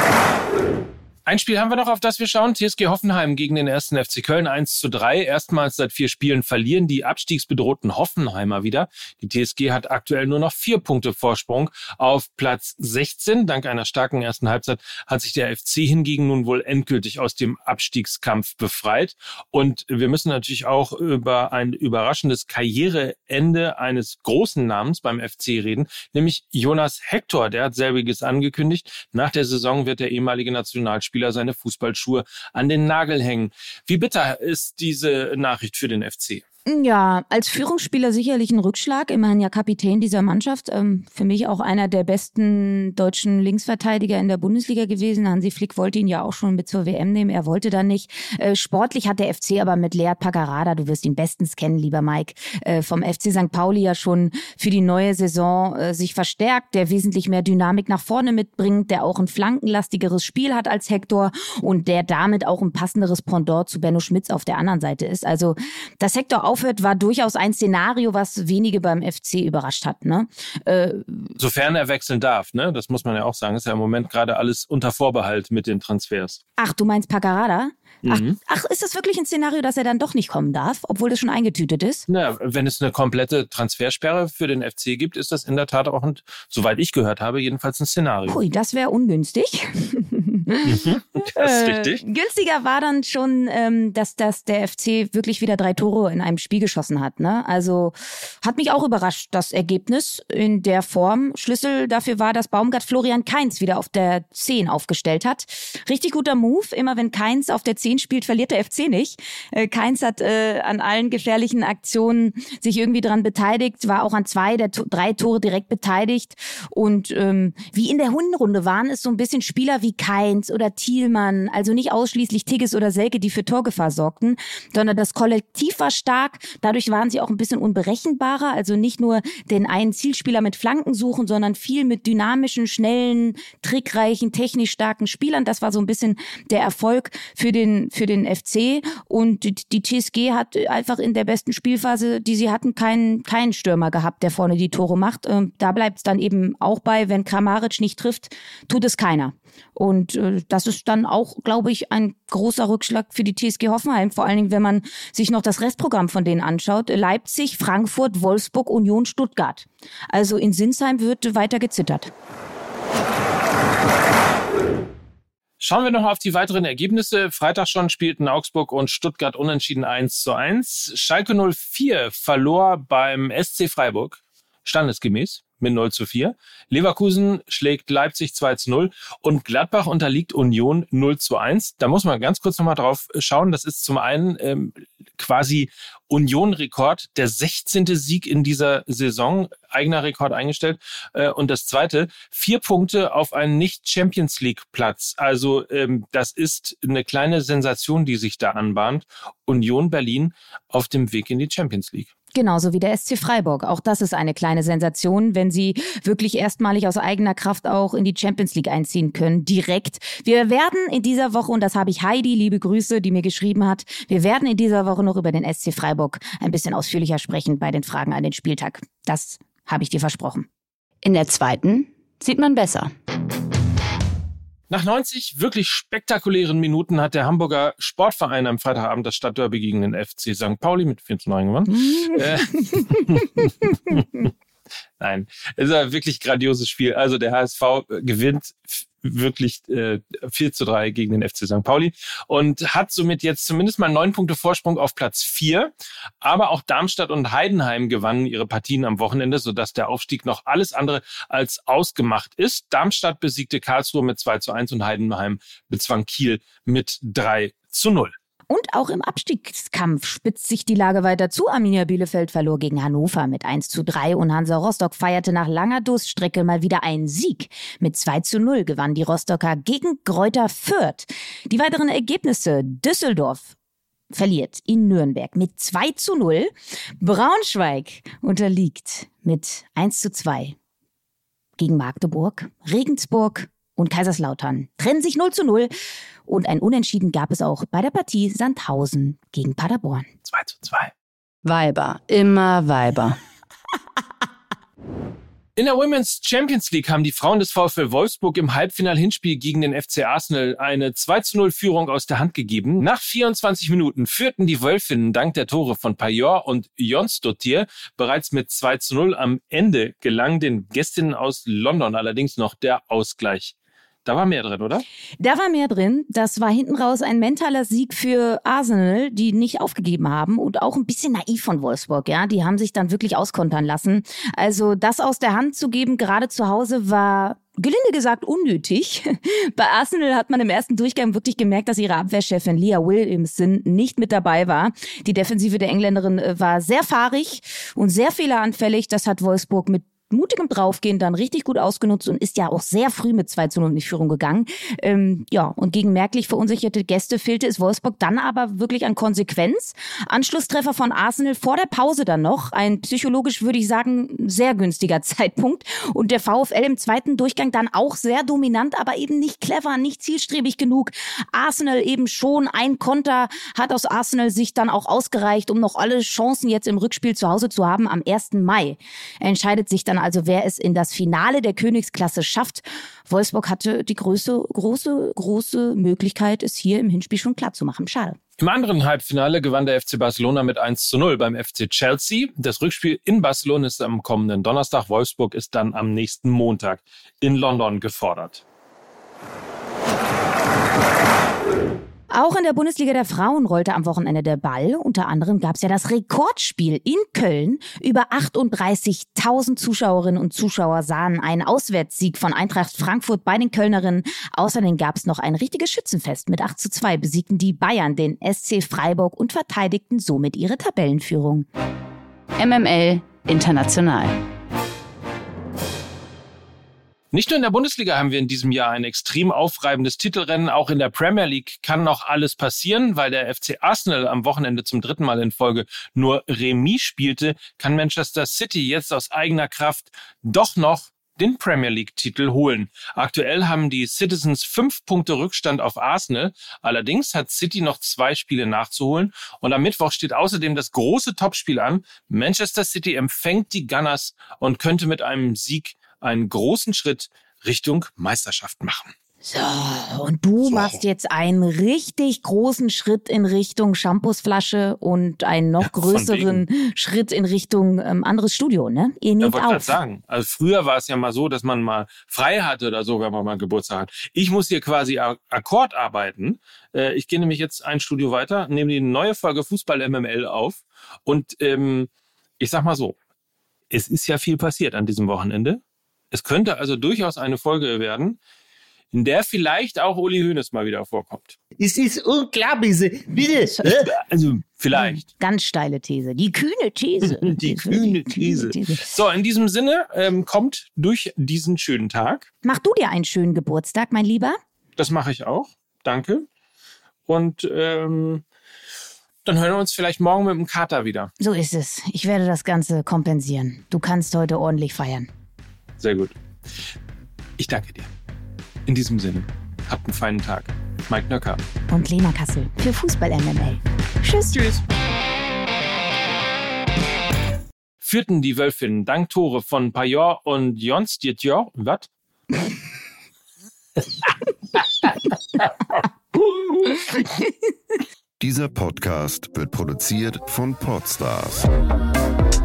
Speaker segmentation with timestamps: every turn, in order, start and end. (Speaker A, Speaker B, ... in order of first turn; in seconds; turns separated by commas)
Speaker A: 1.2-36.4, Speaker B: 36.7-71.3, Speaker A: 71.4-76.4, Speaker B: 76.6-82.1, Speaker A: 78.0-78.4, Speaker A: 82.1-88.4, Speaker B: 88.3-162.1, Speaker A: 90.7-92.0, Speaker A: 165.6-202.1, Speaker B: 202.3-220.5, Speaker C: 221.0-222.9, Speaker A: 224.7-234.3, Speaker B: 231.9-232.8, Speaker A: 235.0-258.1, Speaker B: 258.5-273.5, Speaker B: 274.1-280.6, Speaker B: 281.6-285.7, Speaker B: 286.3-290.1, Speaker A: 290.2-290.9, Speaker C: 291.4-293.2, Speaker A: 295.6-314.8, Speaker B: 315.2-378.2, Speaker A: 378.4-388.4, Speaker B: 392.1-411.5, Speaker C: 412.4-414.2, Speaker A: 417.1-448.9, Speaker B: 449.2-459.8, Speaker A: 450.4-450.8, Speaker A: 455.6-456.4, Speaker A: 459.2-472.9, Speaker A: 473.7-478.2, Speaker A: 478.9-481.4, Speaker D: 481.6-483.9, Speaker B: 483.4-483.7, Speaker A: 483.9-485.0, Speaker B: 484.7-488.9, Speaker A: 487.0-492.3, Speaker B: 492.4-494.4, Speaker A: 494.8-496.3, Speaker A: 497.1-498.2, Speaker A: 499.2-501.1, Speaker B: 501.2-505.1, Speaker A: 505.8-506.1, Speaker A: 507.4-507.9, Speaker A: 508.6-511.4, Speaker B: 511.7-514.3, Speaker A: 514.3-514.6, Speaker A: 517.8-521.9, Speaker E: 528.2-531.5